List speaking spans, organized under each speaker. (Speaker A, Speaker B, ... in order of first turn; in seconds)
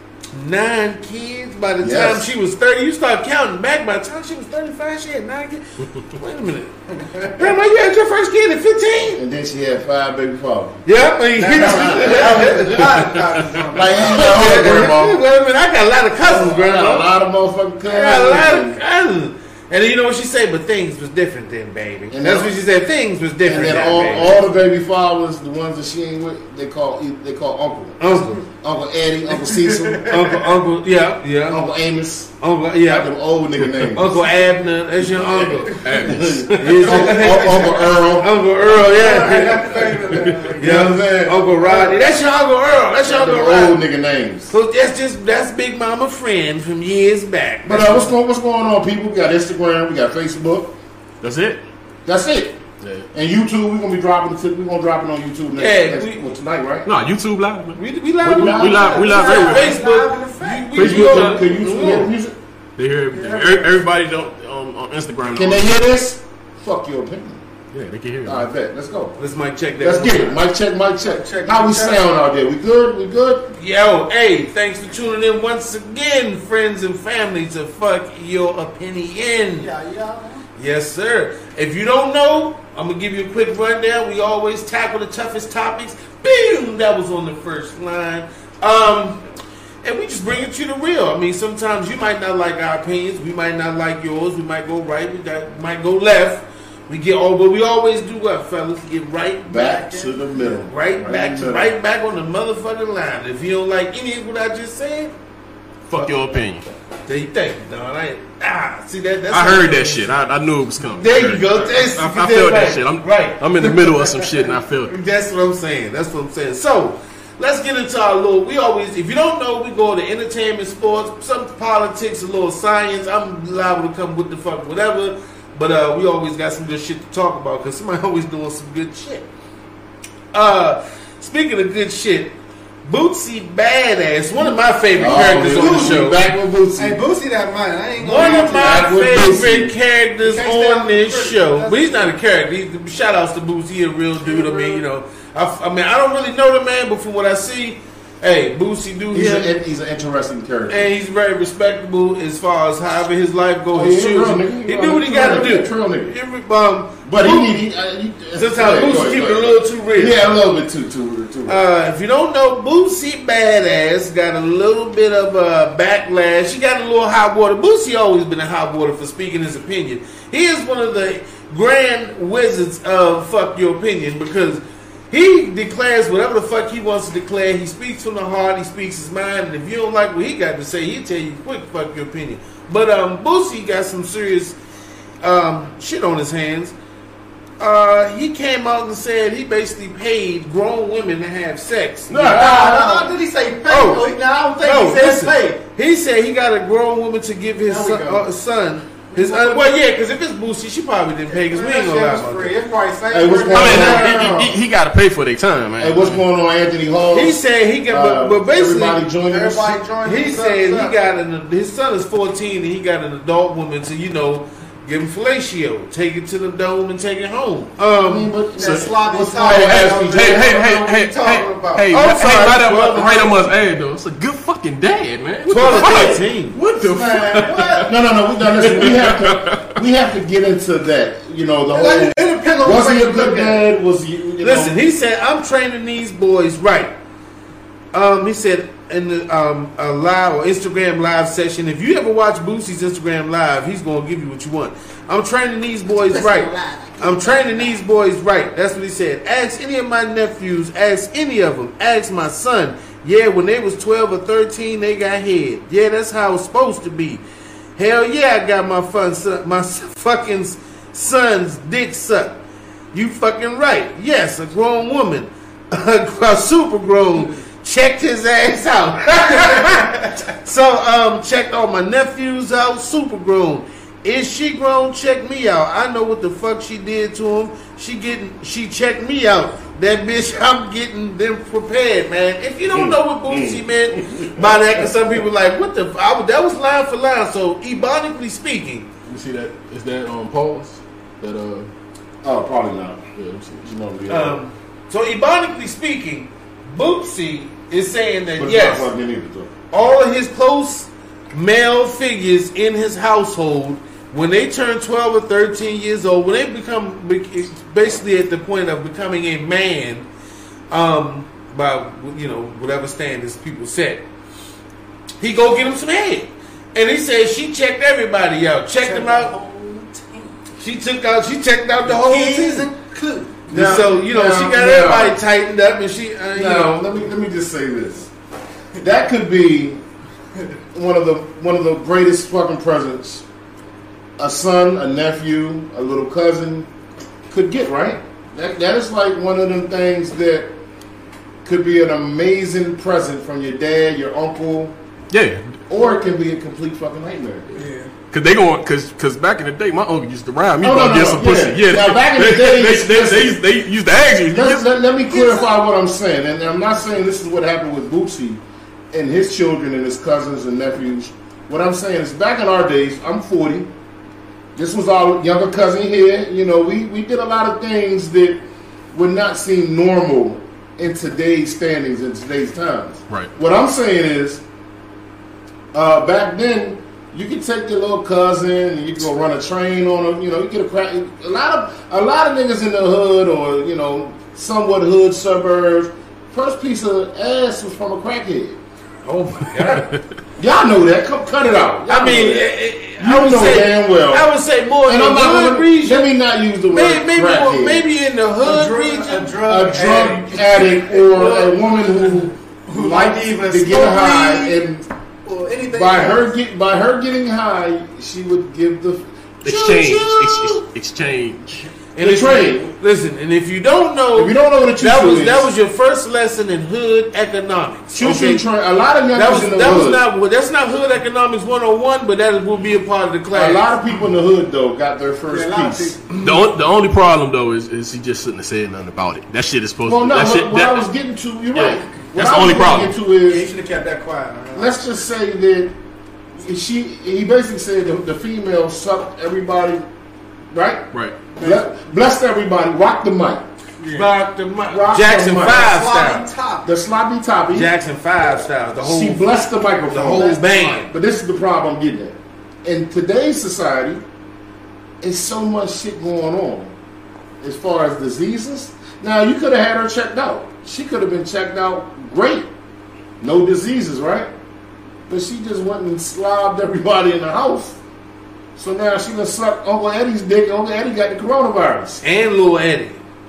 Speaker A: 0.3-5.6, 6.2-6.8, 7.3-9.2, 10.8-13.2, 13.9-17.1, 17.9-24.4, 28.0-28.4, 30.1-31.7, 32.4-33.1, 33.9-36.0, 36.5-43.8, 44.5-48.1, 55.6-56.2, 57.8-62.1, 69.2-70.4, 73.6-79.7, 80.6-89.2, 89.8-99.9, 100.7-105.1, 107.1-110.1, 111.0-114.3, 114.9-129.3, 130.3-136.2, 138.0-149.5, 150.7-157.6, 158.3-160.3, 161.5-184.6, 185.2-186.8, 187.6-192.7, 193.7-202.6, 207.1-209.0, 210.0-218.3, 221.9-223.4, 225.5-226.6, 234.4-236.9, 237.9-257.2, 257.8-262.4, 262.9-288.9, 294.1-298.9, 299.7-310.1, 310.7-314.1, 315.2-319.3, 320.6-322.7, 323.5-326.9, 389.1-389.9, 391.9-396.1, 396.7-399.4, 412.0-418.4, 419.1-423.6, 443.9-446.3, 447.5-449.4, 449.9-450.9, 472.0-473.0
Speaker B: 1.8-2.3, 9.2-10.8, 11.5-12.8, 13.7-15.2, 16.2-18.8, 22.1-22.6, 23.4-30.4, 31.5-34.2, 36.0-38.3, 40.5-42.0, 43.0-44.5, 47.6-50.8, 52.0-52.6, 53.1-56.9, 58.2-59.2, 60.8-62.4, 65.3-67.4, 68.2-69.2, 69.8-73.5, 99.5-101.7, 134.4-137.0, 138.1-139.8, 144.2-144.8, 149.1-150.9, 153.7-156.2, 157.1-161.6, 192.1-193.1, 203.1-204.6, 205.8-209.8, 218.0-220.5, 227.8-234.8, 282.7-284.9, 292.2-293.1, 293.6-294.4, 298.4-299.5, 323.5-325.2, 326.3-328.1, 328.8-329.8, 330.7-333.2, 334.2-336.7, 337.3-340.5, 341.4-344.8, 345.7-347.6, 350.6-353.4, 354.3-363.7, 364.6-374.4, 375.7-388.6, 390.4-394.3, 394.9-397.9, 399.4-404.9, 405.7-410.6, 412.0-412.7, 414.1-415.5, 417.9-420.0, 423.3-425.9, 429.9-433.5, 434.6-435.7, 436.4-439.9, 440.5-440.9, 441.4-443.4, 444.7-445.8, 446.6-447.7, 448.8-454.0, 455.0-456.7, 457.4-462.5, 463.2-464.3, 465.1-467.8, 468.6-472.0
Speaker C: 6.9-7.5, 11.4-14.8, 29.3-30.3, 36.9-37.7, 38.7-40.9, 58.7-60.7, 63.1-63.7, 71.0-72.0, 79.6-80.5, 99.6-100.6, 135.3-136.2, 136.8-138.9, 140.2-142.1, 192.3-195.6, 197.7-198.3, 199.1-199.8, 201.3-204.2, 209.3-210.9, 218.5-221.9, 225.6-226.2, 226.8-227.9, 231.7-233.6, 246.3-247.4, 318.8-320.4, 321.8-323.6, 347.6-347.9, 355.1-355.5, 398.4-404.6, 405.2-406.3, 425.3-426.3, 433.2-434.9, 441.4-441.7, 443.8-444.1, 445.4-446.7, 450.1-450.8
Speaker D: 33.6-33.9, 35.2-37.0, 51.2-51.6, 52.8-53.1, 56.9-59.8, 60.8-62.1, 62.8-65.7, 67.7-68.5, 105.9-106.7, 109.3-115.0, 192.1-192.5, 203.5-206.2, 218.6-218.9, 219.4-229.8, 289.1-291.7, 293.2-293.7, 345.1-345.6, 348.1-354.6, 409.4-411.6, 426.2-430.9, 431.5-432.9